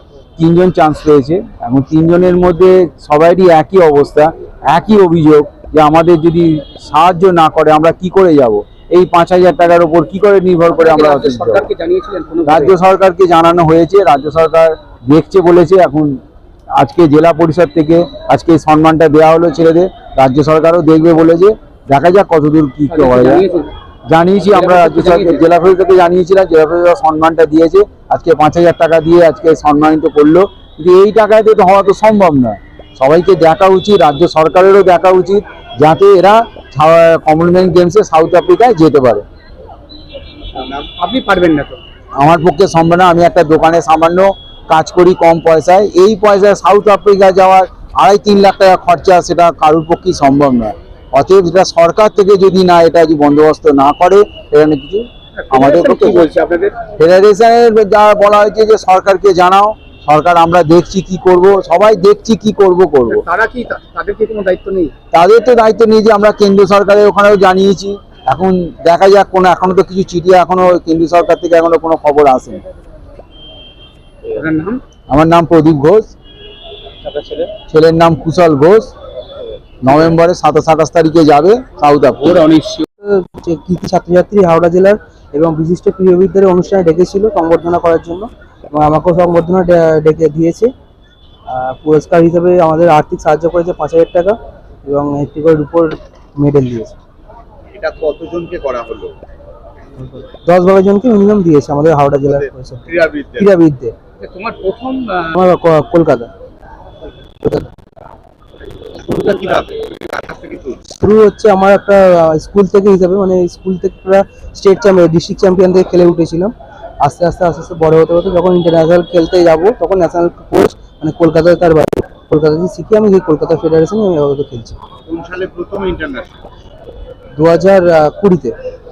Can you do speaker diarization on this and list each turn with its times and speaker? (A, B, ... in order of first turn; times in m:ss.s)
0:00.4-0:11.7 A
0:10.8-0:12.8 B
0:12.4-0:16.2 A
0:16.8-0:23.5 A
0:22.9-0:23.7 B
0:24.1-0:39.2 A
0:24.5-0:25.4 B
0:40.6-0:40.9 C
0:41.0-0:41.8 B
0:42.2-0:56.3 A
0:55.4-0:56.8 B
0:57.0-1:03.2 A
1:03.1-1:04.9 B
1:05.1-1:12.6 A
1:14.3-1:14.8 B
1:15.1-1:16.1 A
1:17.7-1:18.9 A
1:19.8-1:22.5 A
1:22.5-1:22.8 B
1:23.0-1:30.7 D
1:31.5-1:37.0 D
1:37.7-1:39.2 C
1:40.0-1:43.9 D
1:42.3-1:43.5 C
1:44.2-1:45.4 B
1:45.4-1:46.3 D
1:47.4-1:47.7 D
1:49.1-1:50.8 C
1:51.0-2:04.8 D
2:05.1-2:06.4 C
2:07.4-2:08.5 D